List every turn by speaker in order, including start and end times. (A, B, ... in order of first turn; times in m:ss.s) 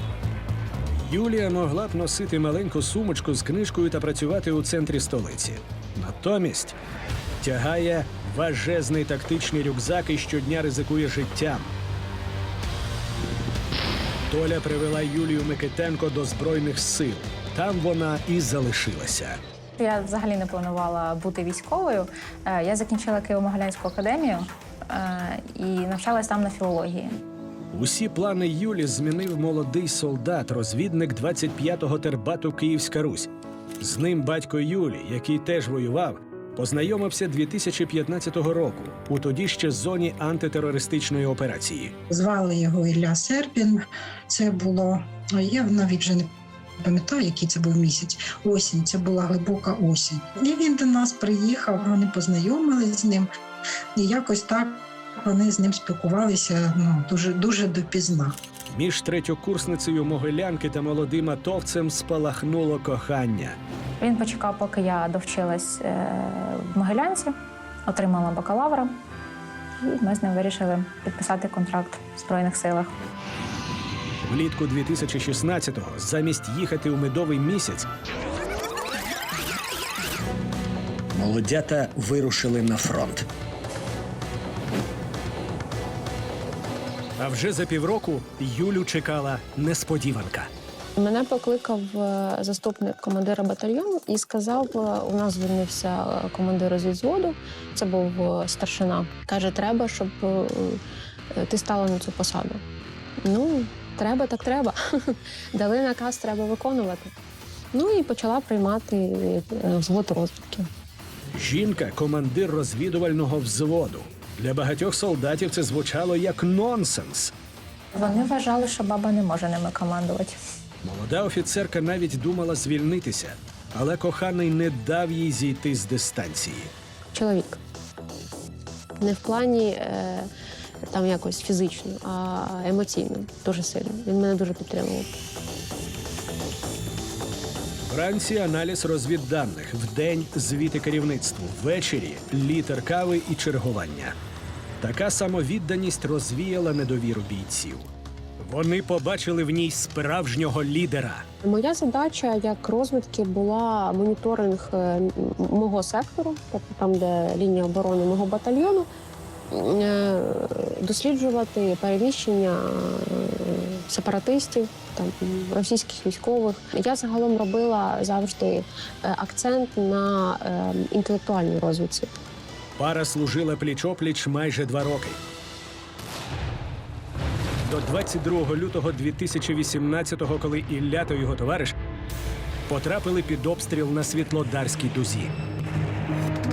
0:00.9-0:06.8 A
0:07.4-0:11.7 A
0:14.3-0:19.4 A
0:19.8-0:27.2 B
0:27.7-0:41.9 A
0:42.1-0:53.3 C
0:54.0-0:58.3 C
0:58.7-1:03.6 A
1:04.0-1:07.3 B
1:07.9-1:08.9 B
1:09.8-1:12.9 B
1:14.2-1:17.9 A
1:21.1-1:23.2 A
1:27.2-1:30.5 A
1:31.0-1:40.8 D
1:41.3-1:42.6 D
1:43.2-1:47.1 D
1:47.7-1:50.7 D
1:51.3-1:57.3 A
1:57.9-2:00.4 B
2:00.8-2:06.7 A
2:07.1-2:07.6 D
2:09.0-2:10.3 D
2:10.9-2:15.1 D
2:17.9-2:24.1 A
2:24.8-2:31.2 A
2:31.4-2:38.8 D
2:39.5-2:52.2 D
2:52.8-2:55.2 A
2:57.6-3:01.7 A
3:02.7-3:05.3 A